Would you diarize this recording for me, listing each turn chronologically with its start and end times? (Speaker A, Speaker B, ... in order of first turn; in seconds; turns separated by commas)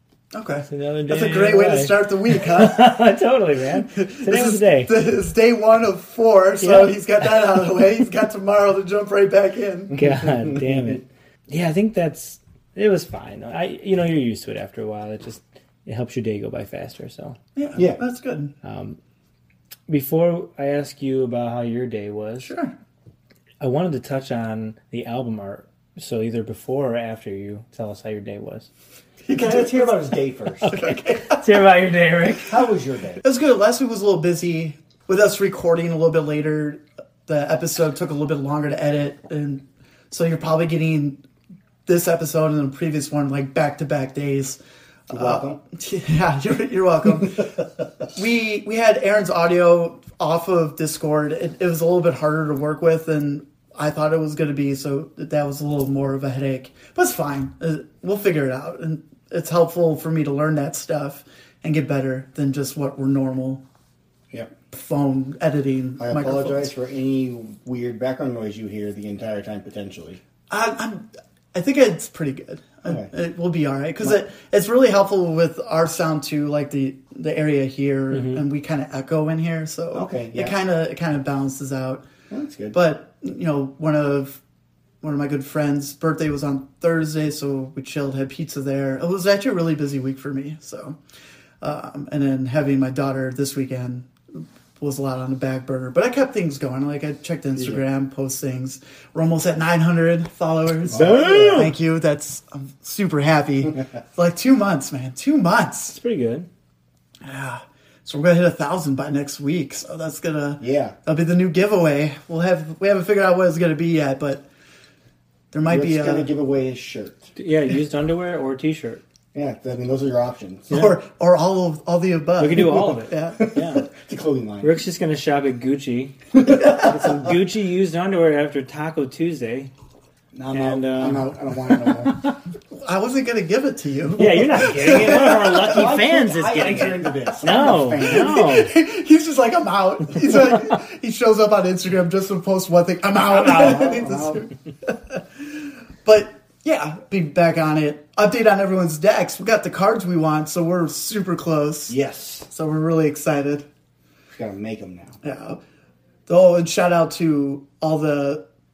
Speaker A: 0.3-2.9, Speaker B: 0.7-4.9, Speaker A: 3.9-9.9, Speaker B: 6.6-7.5, Speaker C: 9.9-11.0, Speaker B: 9.9-17.4, Speaker A: 17.6-18.5, Speaker C: 17.8-18.0, Speaker B: 18.6-19.0, Speaker B: 19.9-22.5, Speaker A: 22.4-22.7, Speaker B: 23.6-28.7, Speaker A: 29.2-30.1, Speaker C: 29.3-30.7, Speaker B: 30.6-32.6, Speaker A: 30.6-31.4, Speaker C: 32.4-33.2, Speaker A: 33.2-41.2, Speaker A: 41.9-63.6, Speaker C: 45.1-45.6, Speaker A: 64.7-66.7, Speaker C: 66.0-70.2, Speaker A: 70.5-82.0, Speaker B: 78.1-78.4, Speaker C: 79.9-80.6, Speaker C: 82.3-82.8, Speaker A: 82.7-84.4, Speaker A: 85.0-91.0, Speaker A: 91.6-106.0, Speaker C: 97.5-97.8, Speaker C: 100.9-101.7, Speaker B: 100.9-101.7, Speaker B: 105.9-106.5, Speaker A: 107.2-114.5, Speaker C: 110.6-110.9, Speaker A: 115.5-116.3, Speaker C: 115.7-117.3, Speaker B: 117.3-119.0, Speaker C: 119.3-120.7, Speaker A: 120.7-123.4, Speaker B: 122.4-123.9, Speaker C: 122.5-124.8, Speaker B: 124.6-129.7, Speaker C: 126.4-127.3, Speaker C: 130.3-132.2, Speaker B: 130.5-132.3, Speaker A: 132.7-135.8, Speaker B: 134.2-138.7, Speaker C: 134.9-138.4, Speaker A: 138.0-152.0, Speaker B: 143.3-144.0, Speaker C: 143.4-144.4, Speaker C: 151.9-152.5, Speaker A: 152.5-153.7, Speaker C: 154.3-155.2, Speaker A: 155.2-155.6, Speaker A: 156.3-158.4